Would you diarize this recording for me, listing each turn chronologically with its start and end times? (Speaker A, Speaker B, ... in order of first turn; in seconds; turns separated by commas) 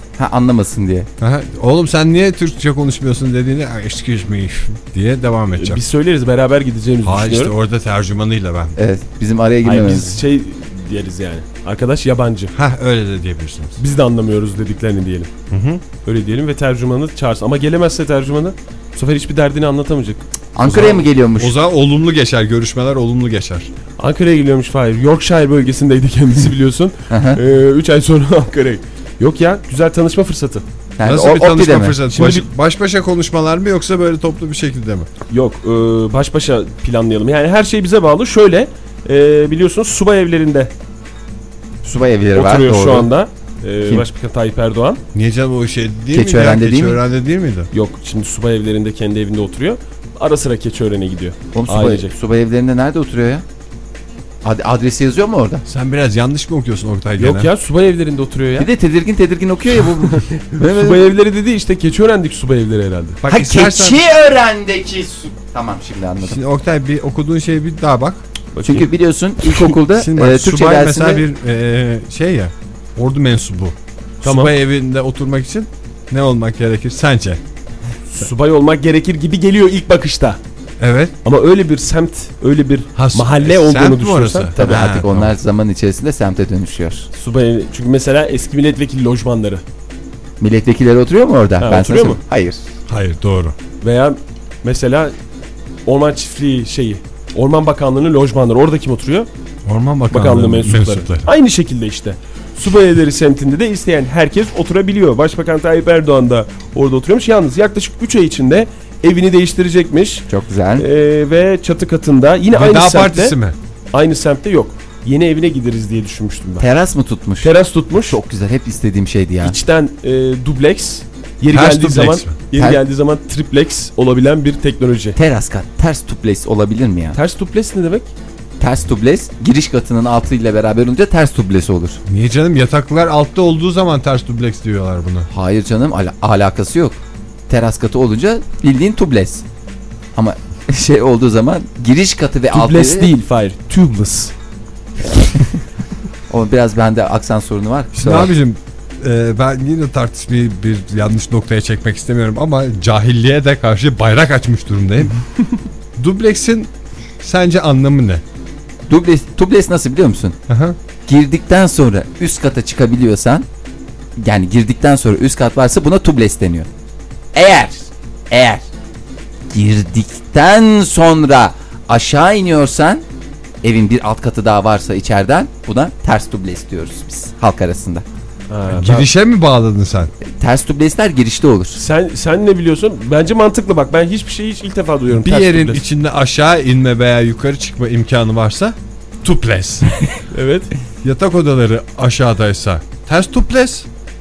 Speaker A: 0.2-1.1, Speaker B: 1.2-5.8, Speaker C: 5.6-7.5, Speaker B: 7.0-8.8, Speaker A: 8.8-10.2, Speaker C: 9.6-12.5, Speaker B: 12.6-13.8, Speaker C: 13.8-15.3, Speaker B: 15.5-15.8, Speaker C: 16.1-21.1, Speaker A: 20.6-21.6, Speaker B: 21.4-23.7, Speaker C: 24.0-30.6, Speaker A: 27.1-27.4, Speaker A: 31.0-32.0, Speaker B: 31.1-35.1, Speaker C: 32.1-32.5, Speaker C: 35.3-40.7, Speaker A: 41.8-43.1, Speaker C: 42.4-45.0, Speaker B: 45.1-47.7, Speaker A: 46.1-47.0, Speaker C: 47.7-52.1, Speaker A: 51.5-53.5, Speaker A: 54.4-55.6, Speaker B: 55.7-57.5, Speaker C: 57.2-58.7, Speaker A: 58.6-61.1, Speaker C: 60.1-63.2, Speaker B: 63.2-64.0, Speaker A: 63.3-66.4, Speaker B: 66.2-68.2, Speaker C: 68.5-68.9, Speaker A: 68.6-71.2, Speaker C: 69.5-69.7, Speaker B: 69.9-77.4, Speaker C: 74.2-74.5, Speaker C: 78.1-80.4, Speaker B: 80.8-81.1, Speaker C: 81.2-84.6, Speaker B: 83.0-85.3, Speaker A: 84.5-87.1, Speaker C: 87.1-89.6, Speaker A: 90.4-92.6, Speaker C: 91.6-92.2, Speaker B: 92.9-93.5, Speaker C: 93.8-95.2, Speaker C: 95.9-99.3, Speaker B: 99.7-101.3, Speaker C: 100.1-110.3, Speaker A: 110.3-110.9, Speaker C: 110.8-113.4, Speaker B: 112.5-113.5, Speaker C: 113.9-116.7, Speaker A: 116.6-119.6, Speaker C: 117.4-118.2, Speaker C: 119.4-125.2, Speaker B: 121.5-122.4, Speaker A: 122.5-122.8, Speaker A: 125.2-127.2, Speaker C: 127.2-128.1, Speaker A: 128.6-132.0, Speaker B: 132.1-135.3, Speaker A: 135.3-137.0, Speaker A: 137.5-139.4, Speaker A: 140.2-143.1, Speaker C: 142.5-144.3, Speaker A: 146.3-148.3, Speaker B: 147.9-155.2, Speaker B: 156.0-156.7, Speaker B: 157.2-158.2, Speaker A: 158.9-160.4, Speaker B: 160.5-160.8, Speaker A: 161.1-163.5, Speaker A: 164.2-166.7, Speaker A: 167.3-168.7, Speaker A: 169.5-173.1, Speaker A: 173.6-178.1, Speaker C: 178.5-179.1, Speaker B: 178.7-180.1, Speaker A: 180.2-181.8, Speaker C: 181.8-185.8, Speaker B: 185.1-190.0, Speaker C: 190.3-190.7, Speaker B: 191.0-193.9